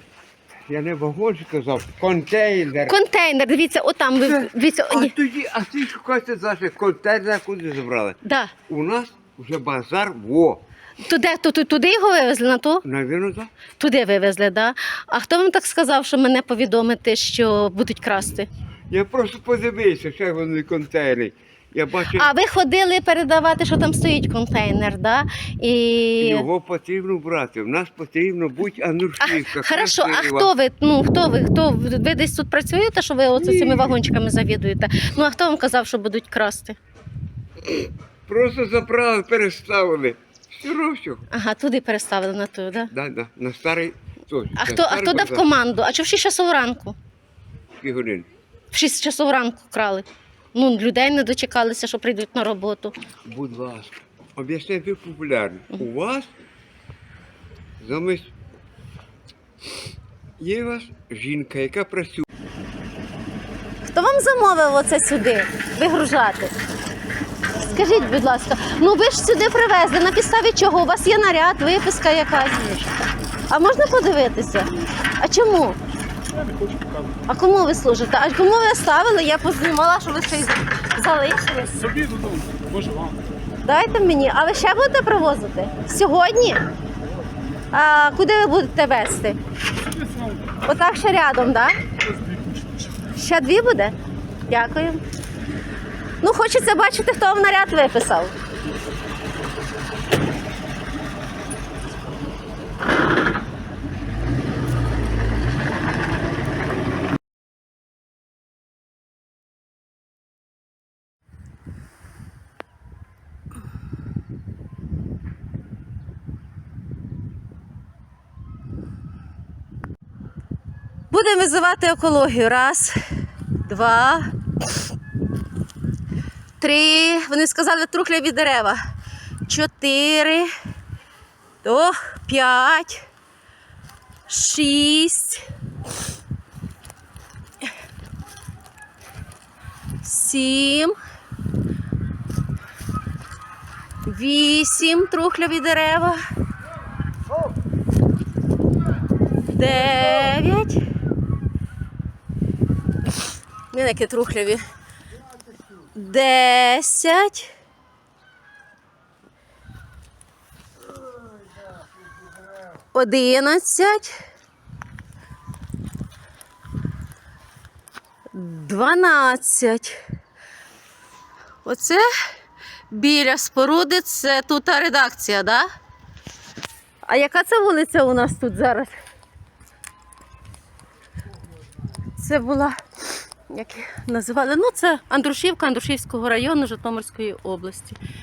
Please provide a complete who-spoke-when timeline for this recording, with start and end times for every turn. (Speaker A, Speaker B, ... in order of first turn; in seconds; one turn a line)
Speaker A: 0.7-3.0
Speaker B: 2.9-5.1
Speaker A: 4.2-8.2
Speaker B: 8.2-8.5
Speaker A: 8.7-10.6
Speaker B: 11.0-12.8
Speaker A: 12.8-13.5
Speaker B: 13.8-18.5
Speaker A: 18.9-22.3
Speaker B: 22.1-26.5
Speaker A: 26.2-30.5
Speaker B: 29.2-36.8
Speaker A: 33.4-34.0
Speaker A: 38.3-41.3
Speaker B: 41.3-42.9
Speaker A: 42.9-45.5
Speaker B: 44.6-47.0
Speaker A: 47.8-48.3
Speaker B: 48.7-52.9
Speaker A: 53.2-56.3
Speaker A: 57.8-58.3
Speaker A: 60.4-62.2
Speaker B: 63.9-66.5
Speaker B: 67.6-72.7
Speaker B: 73.5-75.8
Speaker C: 76.4-77.1
Speaker B: 77.3-81.8
Speaker C: 81.8-83.2
Speaker B: 83.6-86.6
Speaker B: 87.7-89.4
Speaker B: 90.6-91.7
Speaker B: 93.1-94.0
Speaker B: 94.5-95.0
Speaker B: 96.2-98.3
Speaker B: 121.1-123.0
Speaker B: 123.7-124.3
Speaker B: 126.6-128.8
Speaker B: 129.5-130.5
Speaker B: 131.6-133.0
Speaker B: 134.3-135.4
Speaker B: 140.0-140.9
Speaker B: 144.1-146.2
Speaker B: 149.5-150.8
Speaker B: 153.7-154.6
Speaker B: 155.9-157.5
Speaker B: 162.9-164.1
Speaker B: 168.3-170.0
Speaker B: 171.7-172.0
Speaker B: 172.9-175.7
Speaker B: 177.1-179.0
Speaker B: 182.2-182.8
Speaker B: 183.5-188.0